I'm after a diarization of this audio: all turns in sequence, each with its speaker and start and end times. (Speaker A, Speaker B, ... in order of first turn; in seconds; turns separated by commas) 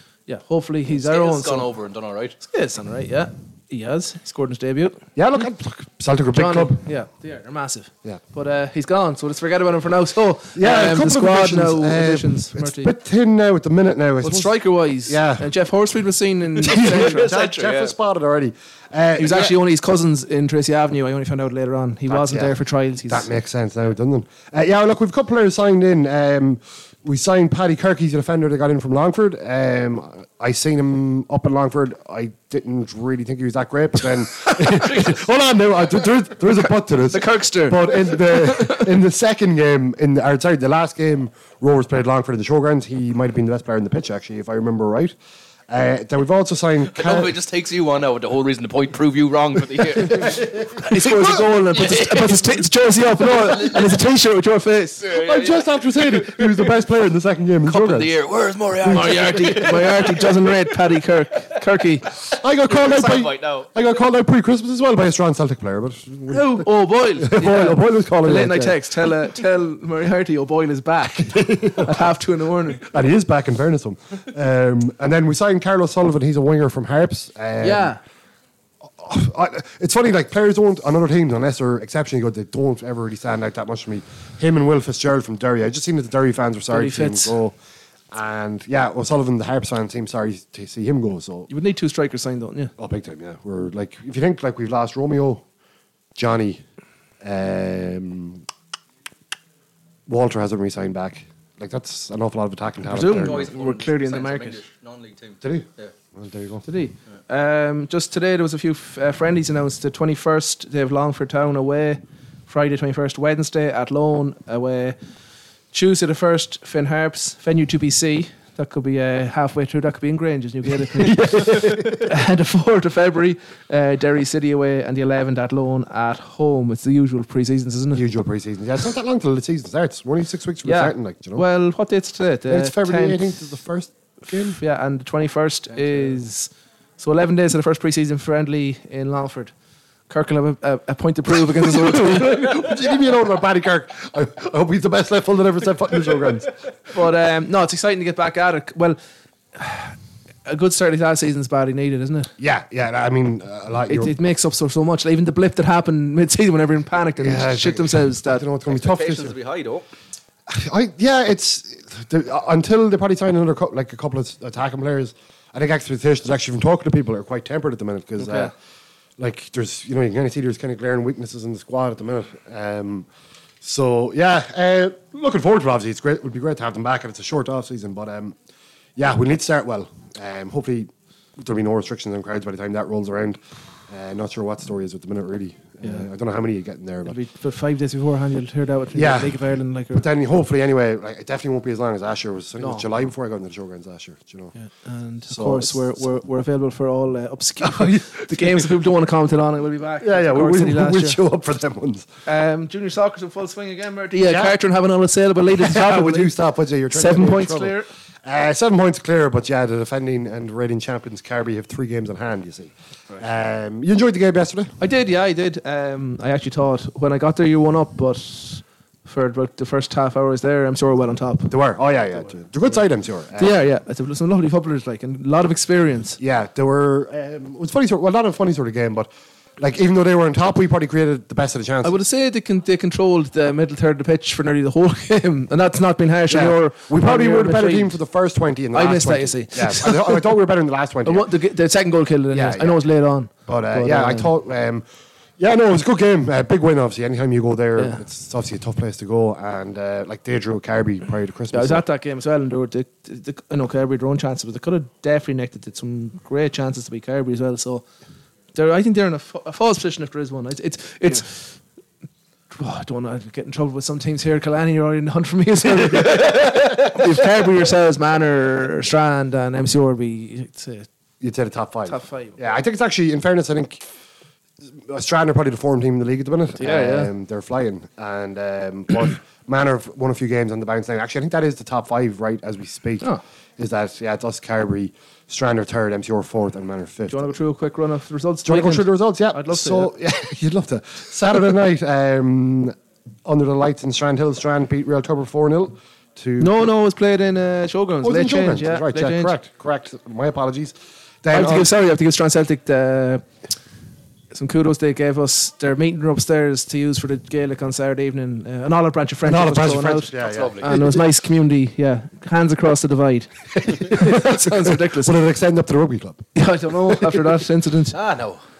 Speaker A: 0.3-1.7, Speaker B: 0.9-2.4, Speaker A: 2.4-5.5, Speaker C: 5.2-6.8, Speaker A: 6.3-12.9, Speaker C: 10.6-15.5, Speaker A: 14.2-17.3, Speaker C: 16.6-19.5, Speaker B: 16.7-17.9, Speaker A: 19.2-23.3, Speaker C: 22.1-22.6, Speaker C: 23.1-45.1, Speaker A: 36.9-38.9, Speaker C: 45.7-47.4, Speaker B: 46.9-52.6, Speaker A: 50.8-55.1, Speaker B: 53.2-53.9, Speaker C: 55.0-58.1, Speaker B: 55.0-56.5, Speaker B: 57.7-60.6, Speaker C: 58.8-59.1, Speaker A: 58.9-62.1, Speaker B: 62.3-63.7, Speaker C: 62.3-68.8, Speaker A: 66.3-72.9, Speaker C: 71.2-72.1, Speaker C: 72.8-78.0, Speaker A: 77.6-78.0, Speaker C: 79.0-87.6, Speaker A: 86.7-87.3, Speaker C: 88.1-91.5, Speaker A: 91.5-92.7, Speaker C: 92.8-95.4, Speaker C: 96.2-96.6, Speaker C: 97.2-98.4, Speaker C: 100.1-103.5, Speaker A: 102.9-104.6, Speaker B: 103.1-105.9, Speaker C: 105.4-106.7, Speaker A: 106.7-115.0, Speaker A: 115.7-128.1, Speaker C: 120.8-122.1, Speaker C: 127.9-131.5, Speaker A: 130.6-133.3, Speaker C: 132.5-134.6, Speaker A: 134.4-139.5, Speaker B: 135.7-136.2, Speaker A: 140.1-142.6, Speaker C: 141.5-146.5, Speaker A: 146.9-149.0, Speaker A: 149.6-152.3, Speaker C: 152.4-154.2, Speaker A: 153.9-158.4, Speaker C: 157.2-159.4, Speaker B: 158.7-159.9, Speaker C: 160.5-168.5, Speaker A: 168.2-168.5, Speaker C: 169.2-173.1, Speaker C: 173.6-178.3, Speaker C: 179.0-187.2, Speaker A: 187.1-190.1, Speaker C: 188.9-194.5, Speaker A: 192.6-193.0, Speaker A: 194.6-201.2, Speaker C: 195.3-196.0, Speaker C: 197.6-198.4, Speaker C: 200.0-202.1, Speaker A: 202.3-206.3, Speaker C: 204.2-204.6, Speaker C: 205.5-214.7, Speaker A: 206.9-207.9, Speaker A: 214.8-221.5, Speaker C: 221.5-223.6, Speaker A: 223.4-226.2, Speaker C: 226.2-232.0, Speaker A: 231.8-238.0, Speaker C: 236.3-241.3, Speaker A: 238.7-240.3, Speaker A: 241.1-244.3, Speaker C: 242.3-242.8, Speaker C: 243.4-244.8, Speaker C: 245.4-251.8, Speaker A: 251.5-257.9, Speaker A: 258.5-261.6, Speaker A: 262.5-270.9, Speaker C: 265.8-266.8, Speaker C: 271.2-273.8, Speaker A: 271.9-272.4, Speaker C: 274.9-287.4, Speaker A: 276.6-277.1, Speaker A: 287.1-289.9, Speaker C: 288.4-296.7, Speaker A: 296.4-299.3, Speaker C: 298.0-301.7, Speaker A: 301.3-303.3, Speaker A: 304.3-315.2, Speaker C: 309.2-310.9, Speaker B: 310.2-310.8, Speaker C: 313.6-316.3, Speaker A: 316.4-318.0, Speaker C: 316.8-317.2, Speaker B: 317.9-318.4